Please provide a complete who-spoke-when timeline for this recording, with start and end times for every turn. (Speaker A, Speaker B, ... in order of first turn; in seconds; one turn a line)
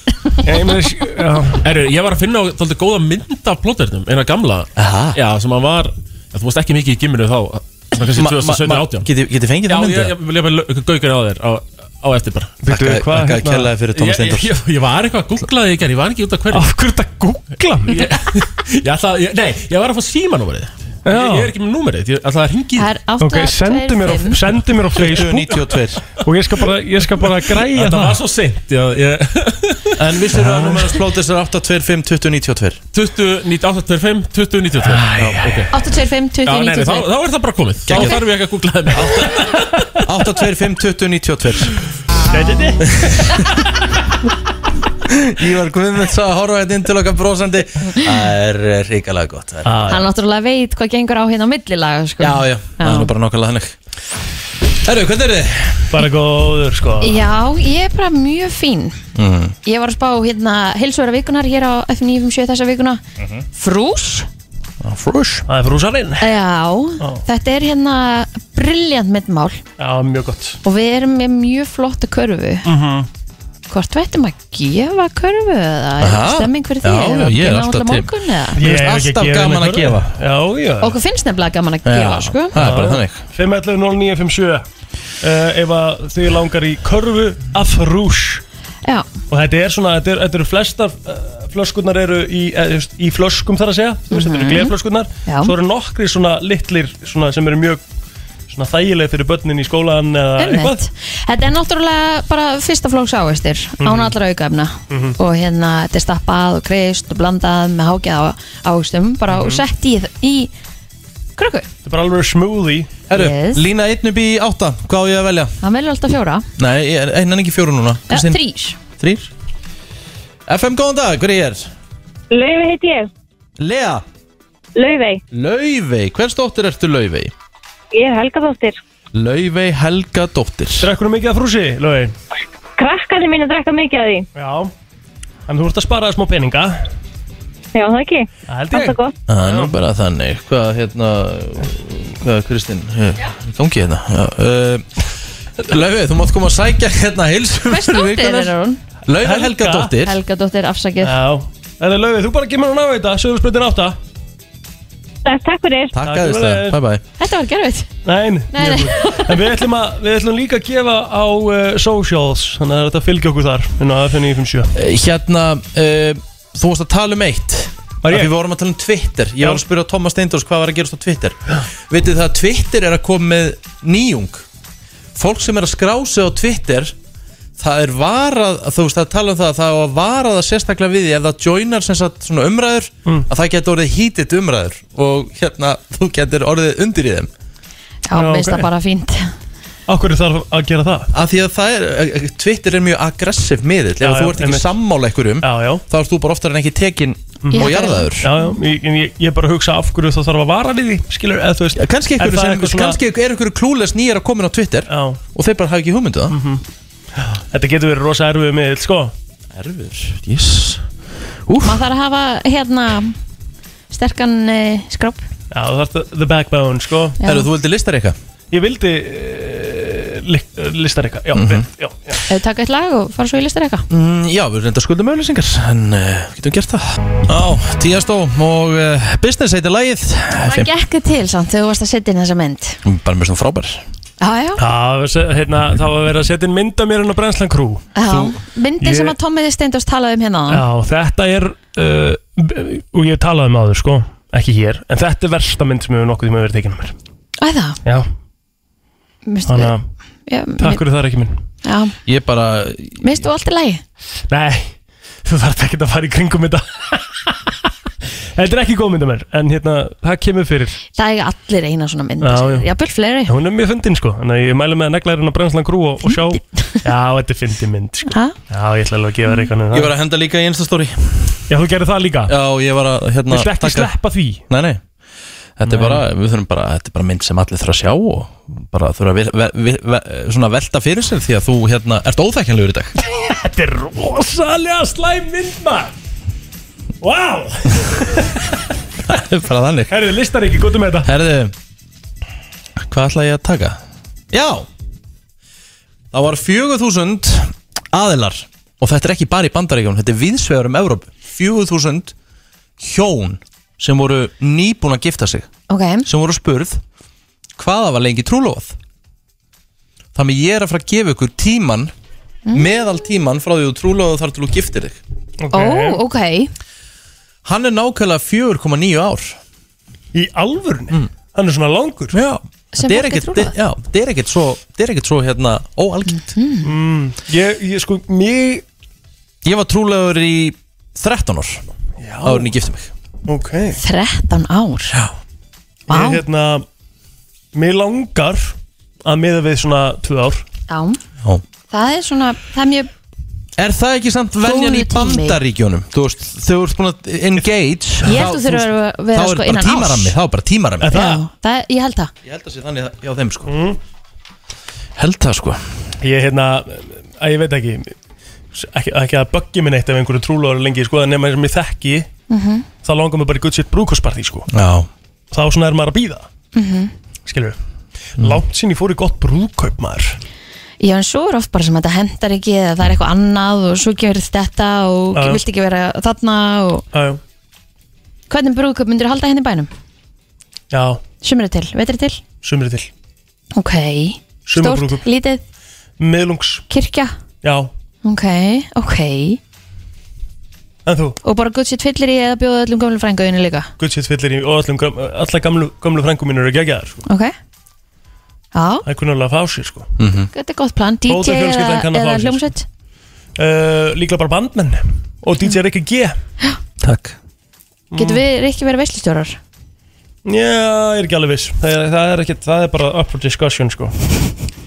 Speaker A: 0.4-1.6
Speaker B: 1.6-9.1
Speaker C: 4.8-5.2
Speaker C: 8.2-10.1
Speaker B: 9.7-12.6
Speaker A: 12.6-13.7
Speaker C: 12.7-14.5
Speaker B: 13.9-16.7
Speaker A: 16.5-18.1
Speaker B: 17.9-22.9
Speaker A: 21.1-21.5
Speaker D: 22.8-24.4
Speaker A: 23.2-28.2
Speaker C: 25.0-26.0
Speaker B: 27.6-30.0
Speaker C: 30.0-32.8
Speaker A: 30.5-30.8
Speaker B: 32.9-35.7
Speaker A: 35.0-35.6
Speaker C: 35.0-35.6
Speaker D: 35.7-37.1
Speaker B: 36.5-39.7
Speaker C: 37.9-38.2
Speaker C: 38.9-39.5
Speaker C: 40.0-41.8
Speaker A: 42.3-43.4
Speaker C: 42.9-43.5
Speaker C: 45.1-50.0
Speaker A: 49.6-50.0
Speaker D: 49.9-53.1
Speaker C: 52.2-53.8
Speaker C: 54.8-56.0
Speaker A: 55.9-57.2
Speaker D: 57.0-59.0
Speaker C: 59.1-59.5
Speaker D: 59.6-63.0
Speaker C: 63.2-63.5
Speaker D: 63.5-64.3
Speaker C: 64.8-65.5
Speaker A: 65.5-66.3
Speaker D: 66.2-69.6
Speaker A: 69.8-70.6
Speaker D: 70.6-72.7
Speaker A: 72.7-73.1
Speaker D: 73.7-78.6
Speaker C: 76.0-80.1
Speaker A: 78.6-81.0
Speaker D: 80.8-82.6
Speaker C: 81.8-83.2
Speaker A: 82.6-84.7
Speaker A: 85.2-88.4
Speaker A: 89.3-97.8
Speaker D: 94.1-94.7
Speaker D: 95.3-95.5
Speaker A: 98.5-100.8
Speaker D: 100.4-110.5
Speaker A: 103.8-104.2
Speaker A: 104.9-105.2
Speaker A: 109.3-109.6
Speaker D: 111.4-111.7
Speaker A: 111.8-112.9
Speaker C: 113.1-115.5
Speaker D: 113.1-113.7
Speaker D: 115.6-116.5
Speaker C: 116.6-118.4
Speaker D: 118.1-118.8
Speaker C: 119.0-119.3
Speaker C: 120.5-121.7
Speaker E: 122.3-123.1
Speaker C: 123.6-124.0
Speaker E: 124.8-125.2
Speaker C: 125.3-127.3
Speaker E: 127.9-128.8
Speaker C: 129.1-130.9
Speaker A: 130.8-132.2
Speaker E: 132.8-134.3
Speaker A: 134.4-134.7
Speaker A: 135.5-136.8
Speaker E: 137.7-139.1
Speaker A: 138.5-139.7
Speaker C: 139.3-144.9
Speaker C: 145.6-148.5
Speaker D: 147.7-148.8
Speaker C: 149.1-150.2
Speaker A: 149.2-149.9
Speaker D: 150.0-151.2
Speaker A: 151.0-154.0
Speaker E: 155.2-156.0
Speaker C: 155.9-157.0
Speaker A: 156.0-156.8
Speaker D: 157.2-157.9
Speaker A: 158.1-164.7
Speaker D: 158.5-159.4
Speaker C: 164.8-171.4
Speaker A: 168.0-168.3
Speaker C: 171.9-174.5
Speaker C: 175.2-176.9
Speaker C: 177.6-187.3
Speaker D: 188.1-189.3
Speaker A: 188.2-188.7
Speaker A: 189.9-191.1
Speaker C: 191.1-198.3
Speaker A: 194.0-194.7
Speaker A: 195.4-195.8
Speaker A: 197.4-203.0
Speaker D: 197.5-198.6
Speaker C: 201.8-206.4
Speaker A: 204.9-205.2
Speaker A: 206.3-206.6
Speaker A: 207.2-209.1
Speaker C: 209.5-210.8
Speaker C: 211.5-211.8
Speaker D: 211.6-213.2
Speaker D: 213.9-215.2
Speaker A: 215.5-217.2
Speaker D: 217.2-217.5
Speaker C: 217.2-218.2
Speaker A: 218.5-222.2
Speaker C: 221.3-221.7
Speaker D: 222.3-223.8
Speaker C: 223.9-230.7
Speaker D: 230.4-232.8
Speaker C: 232.8-233.8
Speaker D: 234.2-234.6
Speaker A: 234.6-238.2
Speaker D: 238.0-240.6
Speaker A: 238.8-239.2
Speaker A: 240.5-246.9
Speaker D: 247.4-247.8
Speaker D: 249.3-249.7
Speaker A: 249.5-249.8
Speaker D: 250.3-250.8
Speaker A: 250.6-251.4
Speaker D: 251.6-252.0
Speaker C: 252.1-253.3
Speaker D: 253.0-253.8
Speaker A: 254.3-254.7
Speaker A: 255.2-257.4
Speaker A: 258.4-260.8
Speaker D: 260.9-263.3
Speaker A: 262.2-262.7
Speaker A: 263.3-269.9
Speaker D: 266.1-266.8
Speaker D: 268.1-268.4
Speaker C: 269.7-271.4
Speaker A: 271.5-272.3
Speaker C: 272.3-273.9
Speaker A: 273.3-274.4
Speaker C: 274.5-274.8
Speaker C: 275.6-282.9
Speaker A: 275.7-276.0
Speaker A: 283.0-285.9
Speaker A: 287.0-288.6
Speaker C: 289.1-290.0
Speaker A: 289.9-291.1
Speaker C: 291.0-291.5
Speaker C: 292.8-293.8
Speaker C: 294.3-294.7
Speaker C: 296.1-302.1
Speaker C: 302.8-305.5
Speaker D: 305.7-306.1
Speaker C: 306.1-306.8
Speaker C: 307.6-308.8
Speaker C: 310.1-311.9
Speaker C: 312.5-315.0
Speaker A: 315.4-316.0
Speaker D: 315.5-316.5
Speaker C: 317.4-319.4
Speaker A: 320.1-322.2
Speaker C: 322.1-326.3
Speaker D: 322.7-323.6
Speaker D: 326.1-326.7
Speaker A: 326.6-328.6
Speaker C: 329.4-331.6
Speaker A: 332.0-332.5
Speaker C: 332.2-332.9
Speaker A: 333.3-333.8
Speaker D: 333.8-335.0
Speaker A: 335.9-336.6
Speaker D: 335.9-336.2
Speaker A: 337.6-340.4
Speaker D: 340.7-341.0
Speaker D: 341.7-342.9
Speaker C: 343.6-351.0
Speaker D: 344.4-345.4
Speaker D: 348.1-350.1
Speaker A: 350.8-351.2
Speaker D: 350.9-352.1
Speaker C: 352.2-353.5
Speaker A: 353.5-353.8
Speaker C: 355.0-355.6
Speaker A: 356.0-357.9
Speaker A: 358.5-362.1
Speaker D: 362.3-362.7
Speaker A: 362.8-364.5
Speaker C: 364.5-364.9
Speaker A: 365.3-366.3
Speaker D: 366.5-366.9
Speaker A: 367.3-367.6
Speaker A: 368.2-370.2
Speaker D: 370.8-376.9
Speaker A: 375.1-375.4
Speaker A: 376.9-377.2
Speaker D: 378.3-379.7
Speaker A: 380.7-381.0
Speaker D: 381.2-382.2
Speaker A: 382.4-382.9
Speaker D: 383.6-385.4
Speaker A: 384.5-385.0
Speaker A: 386.0-386.7
Speaker D: 386.7-387.2
Speaker A: 387.4-387.7
Speaker D: 388.0-389.4
Speaker A: 390.9-391.2
Speaker D: 391.2-393.7
Speaker A: 393.8-397.0
Speaker D: 397.1-397.3
Speaker D: 398.5-398.9
Speaker A: 398.9-399.9
Speaker C: 400.0-400.3
Speaker D: 400.3-402.6
Speaker A: 401.1-402.5
Speaker A: 403.4-406.2
Speaker C: 406.8-407.2
Speaker A: 407.9-408.2
Speaker D: 407.9-409.4
Speaker A: 410.3-414.3